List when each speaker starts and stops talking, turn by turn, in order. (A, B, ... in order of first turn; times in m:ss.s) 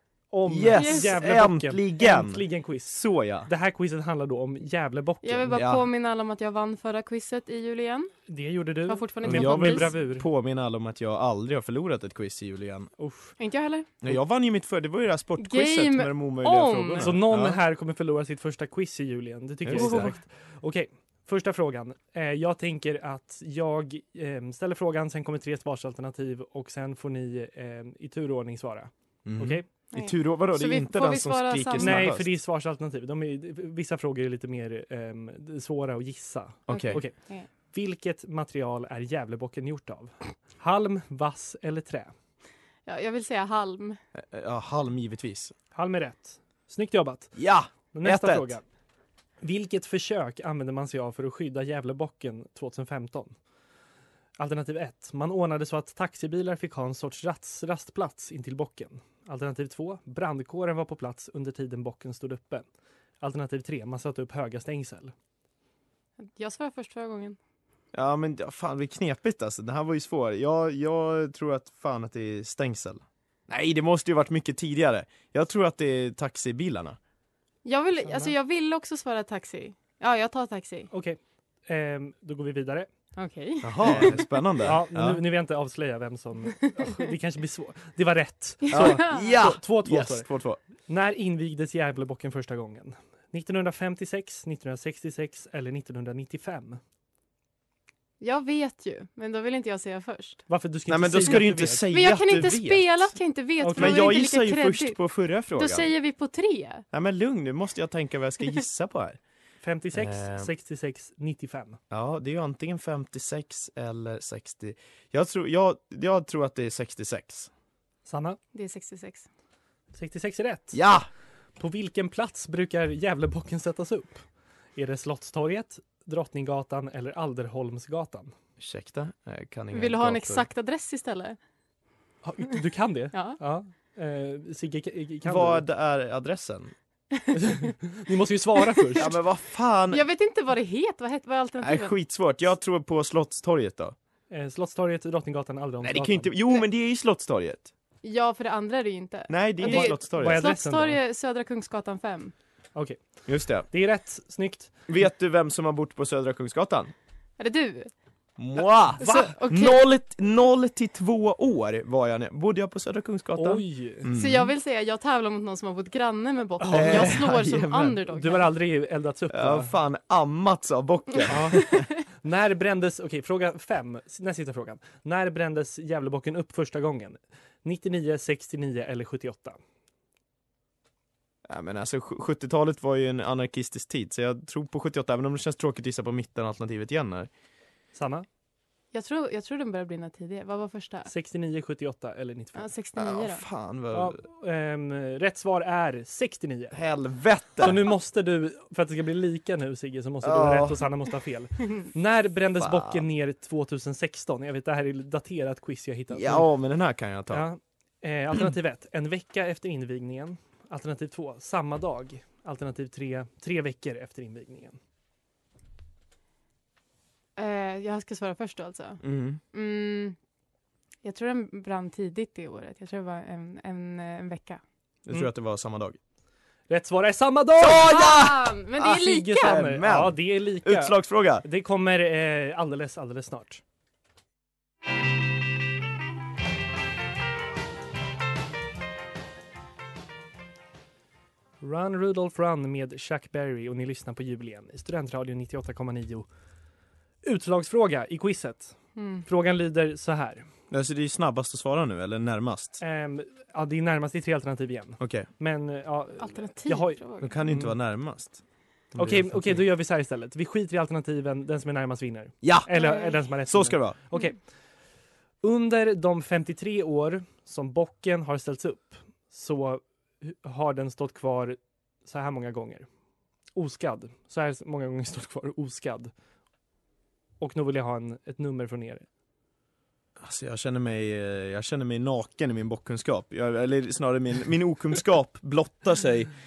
0:00.3-0:05.6 A
0:00.5-0:03.5 B
0:00.7-0:01.2 C
0:05.2-0:08.2 C
0:05.5-0:05.8 B
0:08.3-0:10.3 A
0:08.9-0:09.9 C
0:09.2-0:12.9 B
0:13.0-0:13.4 A
0:13.4-0:13.9 C
0:14.0-0:17.6 B
0:15.4-0:17.1 C
0:17.0-0:29.7 A
0:19.6-0:20.1 B
0:19.7-0:20.1 C
0:29.2-0:32.3 B
0:29.9-0:32.1 C
0:31.8-0:37.1 A
0:36.7-0:37.0 B
0:36.7-0:37.5 C
0:37.7-0:42.1 A
0:42.8-0:44.0 C
0:44.1-0:45.5 B
0:45.7-0:47.4 A
0:47.4-0:48.6 B
0:47.9-0:48.6 A
0:49.4-0:53.3 A
0:54.4-1:02.6 A
1:03.2-1:05.1 A
1:06.2-1:07.4 C
1:07.9-1:17.0 B
1:17.6-1:20.9 C
1:18.0-1:18.3 A
1:20.9-1:22.9 A
1:23.2-1:24.3 C
1:23.6-1:25.2 B
1:23.8-1:30.3 A
1:28.7-1:29.4 C
1:28.7-1:30.6 B
1:30.9-1:36.8 A
1:38.2-1:40.4 C
1:40.5-1:41.9 A
1:40.9-1:43.1 B
1:41.9-1:45.0 C
1:43.6-1:44.0 A
1:43.8-1:45.9 B
1:45.5-1:46.8 C
1:46.9-1:49.2 B
1:49.6-1:51.8 A
1:49.9-1:50.5 B
1:51.9-1:57.5 B
1:58.0-1:58.4 A
1:58.5-1:59.2 C
1:59.9-2:00.8 A
2:00.7-2:01.1 B
2:01.6-2:08.3 A
2:08.6-2:10.4 B
2:09.7-2:11.4 C
2:12.2-2:15.6 A
2:13.1-2:13.4 C
2:15.2-2:16.7 B
2:17.3-2:19.1 A
2:19.0-2:20.0 B
2:19.9-2:22.0 C
2:21.6-2:24.0 B
2:24.3-2:26.3 A
2:25.8-2:27.7 B
2:28.0-2:32.3 C
2:29.3-2:30.5 B
2:29.6-2:31.0 A
2:32.7-2:33.0 A
2:33.3-2:33.7 B
2:33.6-2:34.7 A
2:34.9-2:36.9 B
2:37.4-2:37.9 C
2:38.4-2:44.5 B
2:39.0-2:39.3 A
2:39.0-2:39.8 C
2:43.4-2:44.1 A
2:44.1-2:48.5 C
2:46.6-2:47.2 A
2:46.7-2:48.0 B
2:48.1-2:49.7 A
2:49.3-2:51.8 B
2:51.3-2:59.6 A
3:01.4-3:07.3 B
3:07.9-3:08.2 A
3:08.9-3:11.1 C
3:11.1-3:12.7 A
3:12.5-3:13.4 C
3:13.0-3:14.2 B
3:13.9-3:16.8 A
3:16.7-3:17.8 B
3:17.6-3:26.5 A
3:20.2-3:20.8 B
3:22.6-3:23.0 B
3:26.1-3:27.4 B
3:27.3-3:34.8 A
3:37.4-3:40.2 C
3:39.0-3:39.4 B
3:41.0-3:44.6 C
3:45.0-3:46.0 B
3:46.7-3:48.0 A
3:47.6-3:51.4 B
3:47.7-3:49.6 C
3:48.8-3:53.6 A
4:01.6-4:06.3 A
4:07.2-4:10.5 A
4:09.0-4:09.3 C
4:10.7-4:12.8 B
4:12.8-4:17.7 A
4:15.0-4:15.3 B
4:16.2-4:17.3 C
4:17.2-4:18.4 B
4:18.9-4:19.7 B
4:18.9-4:24.4 A
4:22.4-4:22.7 B
4:22.7-4:23.2 C
4:23.4-4:24.0 B
4:25.4-4:32.9 A
4:33.5-4:36.1 A
4:37.4-4:39.1 A
4:40.2-4:46.3 B